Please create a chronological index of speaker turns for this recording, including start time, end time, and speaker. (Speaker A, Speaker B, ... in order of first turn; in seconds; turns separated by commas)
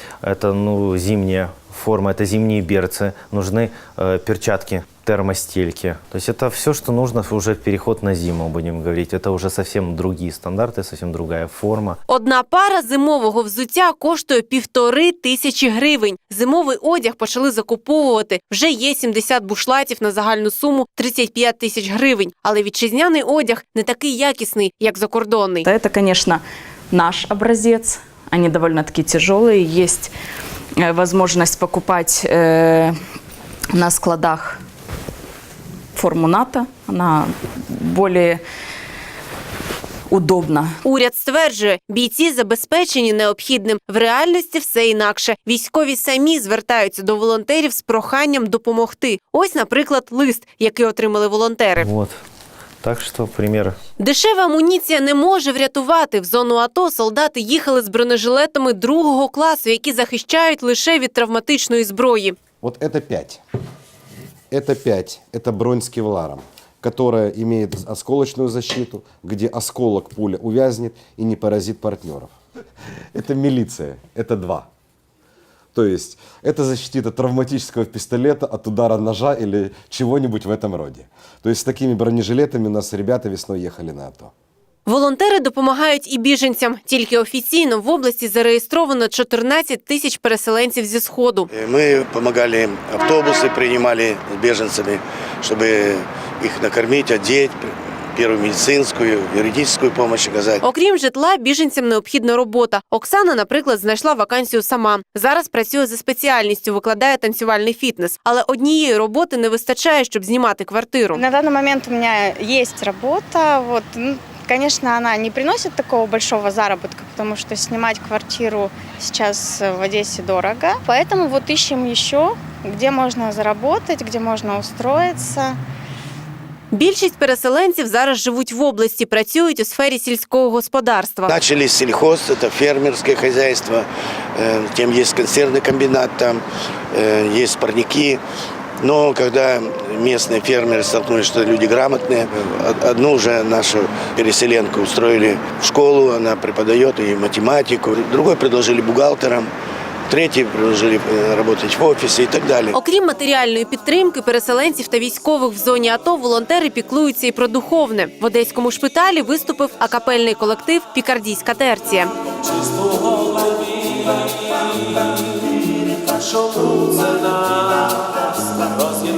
Speaker A: 0.2-12.0, Speaker B: 12.1-25.7, Speaker C: 25.6-30.1, Speaker C: 30.8-33.0, Speaker C: 33.7-34.6, Speaker C: 36.0-38.4, Speaker C: 40.1-40.8, Speaker B: 40.8-51.9, Speaker A: 51.8-52.1, Speaker A: 52.8-53.8, Speaker B: 54.0-62.4, Speaker D: 62.6-63.4, Speaker D: 64.5-72.3, Speaker D: 73.1-74.7, Speaker D: 75.7-84.3, Speaker B: 84.9-91.5, Speaker E: 91.5-100.6, Speaker B: 100.6-111.2, Speaker F: 111.1-125.6, Speaker B: 126.7-131.3, Speaker E: 131.3-136.4, Speaker E: 136.9-138.2, Speaker E: 138.8-149.5, Speaker E: 150.1-152.8, Speaker B: 152.7-162.1